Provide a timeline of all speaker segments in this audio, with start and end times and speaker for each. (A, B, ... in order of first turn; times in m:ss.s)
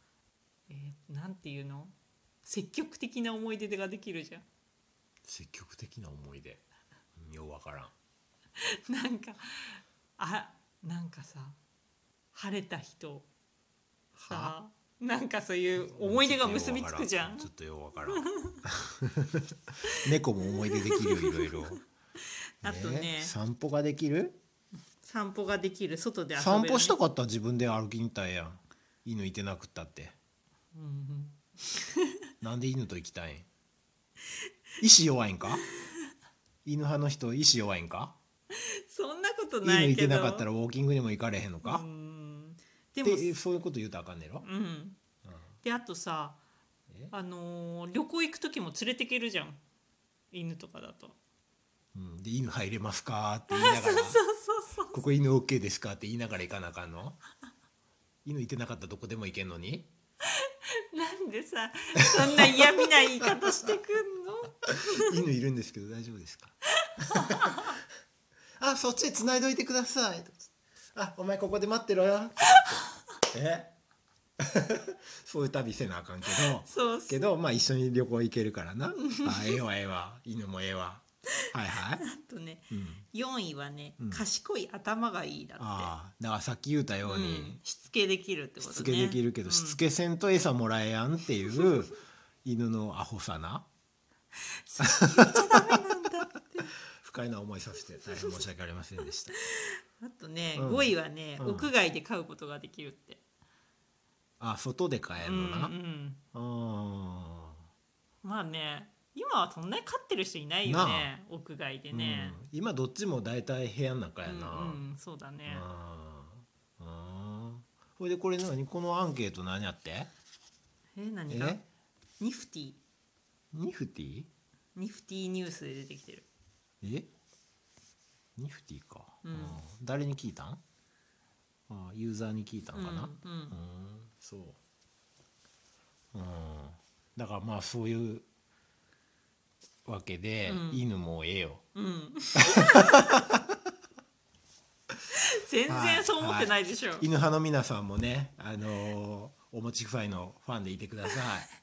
0:00.7-0:04.4 A
0:05.2-0:06.6 B
0:07.2-0:07.9 B
0:08.9-0:11.6 A
0:12.3-0:13.2 A
0:14.1-0:14.5 B
0:14.3-0:17.5 A
0:15.8-0:21.8 B
0:18.1-0:18.6 A
0:20.6-0:21.6 A
0:22.6-0:23.3 A
0:22.6-0:24.4 B
0:25.0-0:27.0 A
0:26.3-0:30.1 B
0:30.7-0:32.1 A
0:32.4-0:33.5 B
0:34.8-0:35.6 B
0:35.7-0:36.0 A
0:36.6-0:38.1 B
0:38.5-0:40.5 A
0:39.6-0:41.8 B
0:41.6-0:43.4 A
0:43.0-0:44.4 B
0:44.4-0:45.0 A
0:45.6-0:46.4 A
0:47.1-0:49.6 A
0:50.3-0:51.2 A
0:51.9-0:54.2 B
0:53.5-0:55.0 A
0:54.9-0:57.2 B
0:58.2-0:59.9 B
1:00.2-1:05.1 A
1:02.2-1:03.3 B
1:05.0-1:07.6 B
1:06.8-1:07.7 A
1:08.6-1:13.7 B
1:12.5-1:12.7 A
1:14.4-1:22.0 B
1:16.4-1:17.3 A
1:19.0-1:19.6 A
1:22.0-1:25.9 A
1:22.7-1:23.0 B
1:24.0-1:24.2 B
1:25.6-1:27.6 B
1:27.0-1:29.8 A
1:28.6-1:33.6 B
1:34.6-1:36.7 A
1:34.8-1:36.0 B
1:36.9-1:39.3 B
1:39.4-1:43.2 A
1:40.6-1:41.7 B
1:44.4-1:45.7 B
1:45.2-1:46.2 A
1:46.3-1:47.6 B
1:48.2-1:52.4 A
1:50.6-1:51.1 B
1:51.9-1:54.8 B
1:54.2-1:55.6 A
1:55.4-2:00.1 B
2:01.0-2:01.6 A
2:01.3-2:01.6 B
2:02.2-2:02.8 A
2:03.5-2:04.3 B
2:04.8-2:06.2 A
2:06.8-2:07.1 B
2:08.4-2:10.6 B
2:09.2-2:09.6 A
2:11.7-2:14.6 B
2:12.7-2:13.6 A
2:16.1-2:18.2 B
2:19.8-2:21.6 B
2:20.4-2:20.8 A
2:21.7-2:23.0 A
2:22.7-2:23.5 B
2:25.1-2:27.0 A
2:25.7-2:31.5 B